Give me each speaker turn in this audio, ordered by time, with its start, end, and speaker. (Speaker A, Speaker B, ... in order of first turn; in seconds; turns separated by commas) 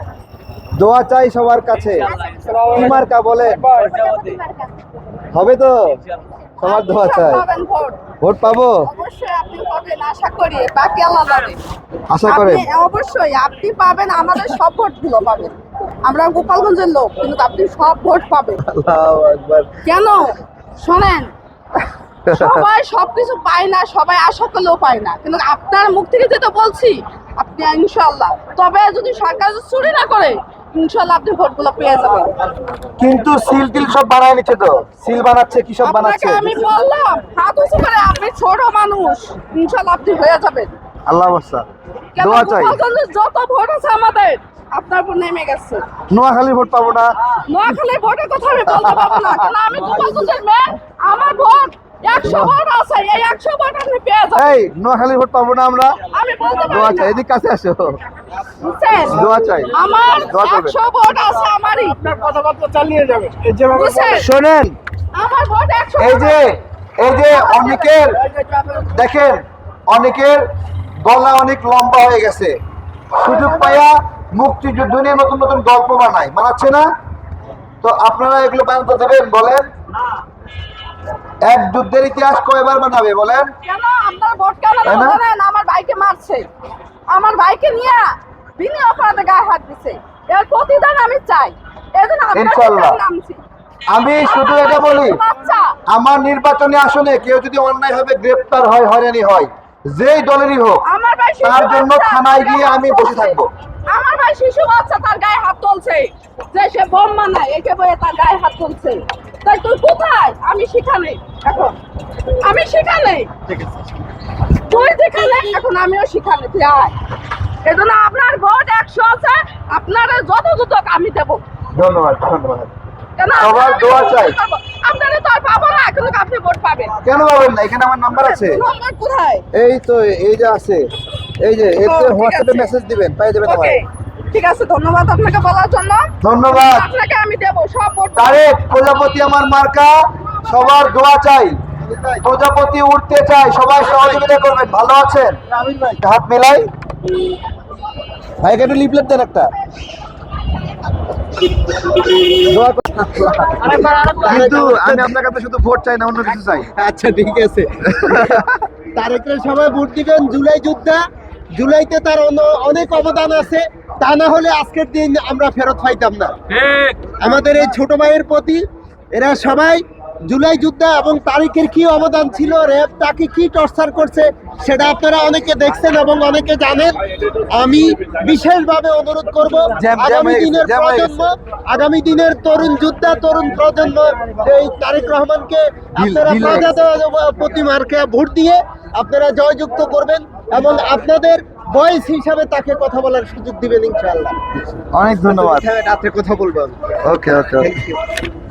Speaker A: 0.8-2.1, Speaker A: 2.7-3.7, Speaker B: 3.7-4.7, Speaker A: 5.3-6.0, Speaker A: 6.6-7.4, Speaker B: 6.6-8.0, Speaker A: 8.2-8.9, Speaker B: 8.8-11.6, Speaker A: 12.1-12.7, Speaker B: 12.3-18.6, Speaker A: 18.7-19.7, Speaker B: 19.8-21.3, Speaker A: 22.3-22.6, Speaker B: 22.3-32.4, Speaker A: 33.0-36.5, Speaker B: 35.8-40.7, Speaker A: 41.1-41.7, Speaker B: 42.1-45.9, Speaker A: 42.2-42.8, Speaker A: 46.1-47.1, Speaker B: 47.4-54.6, Speaker A: 48.7-50.0, Speaker A: 52.2-52.6, Speaker A: 54.4-56.0, Speaker B: 56.1-57.1, Speaker A: 56.7-58.0, Speaker B: 58.6-62.0, Speaker A: 59.0-60.8, Speaker C: 62.1-64.0, Speaker B: 63.7-64.3, Speaker A: 64.1-64.8, Speaker B: 65.2-66.5, Speaker A: 66.0-68.2, Speaker B: 67.1-68.8, Speaker A: 68.8-70.5, Speaker A: 71.0-72.6, Speaker A: 73.1-76.9, Speaker B: 73.3-73.8, Speaker A: 77.8-79.7, Speaker A: 81.4-83.5, Speaker B: 83.7-86.5, Speaker A: 84.8-85.2, Speaker B: 87.1-93.4, Speaker A: 92.3-93.0, Speaker A: 93.9-95.2, Speaker B: 94.2-95.8, Speaker A: 95.9-100.8, Speaker B: 100.8-111.8, Speaker A: 101.4-103.5, Speaker B: 112.3-113.3, Speaker B: 114.6-117.0, Speaker B: 117.6-121.4, Speaker A: 121.7-122.7, Speaker B: 123.2-126.9, Speaker A: 123.4-124.4, Speaker A: 127.0-128.6, Speaker B: 128.2-129.4, Speaker A: 129.5-130.9, Speaker A: 131.4-133.8, Speaker B: 131.8-132.7, Speaker B: 133.4-138.4, Speaker A: 136.2-136.9, Speaker A: 138.2-141.6, Speaker C: 141.9-142.2, Speaker A: 142.2-145.4, Speaker C: 145.5-146.0, Speaker A: 146.0-146.7, Speaker A: 148.4-149.5, Speaker A: 151.8-156.7, Speaker C: 153.5-155.1, Speaker C: 156.7-161.0, Speaker A: 158.0-158.5, Speaker C: 161.5-177.0, Speaker C: 177.5-194.4, Speaker A: 179.8-181.1, Speaker A: 186.0-186.8, Speaker A: 194.9-195.7, Speaker C: 195.2-197.0, Speaker A: 197.0-197.7, Speaker C: 197.6-198.0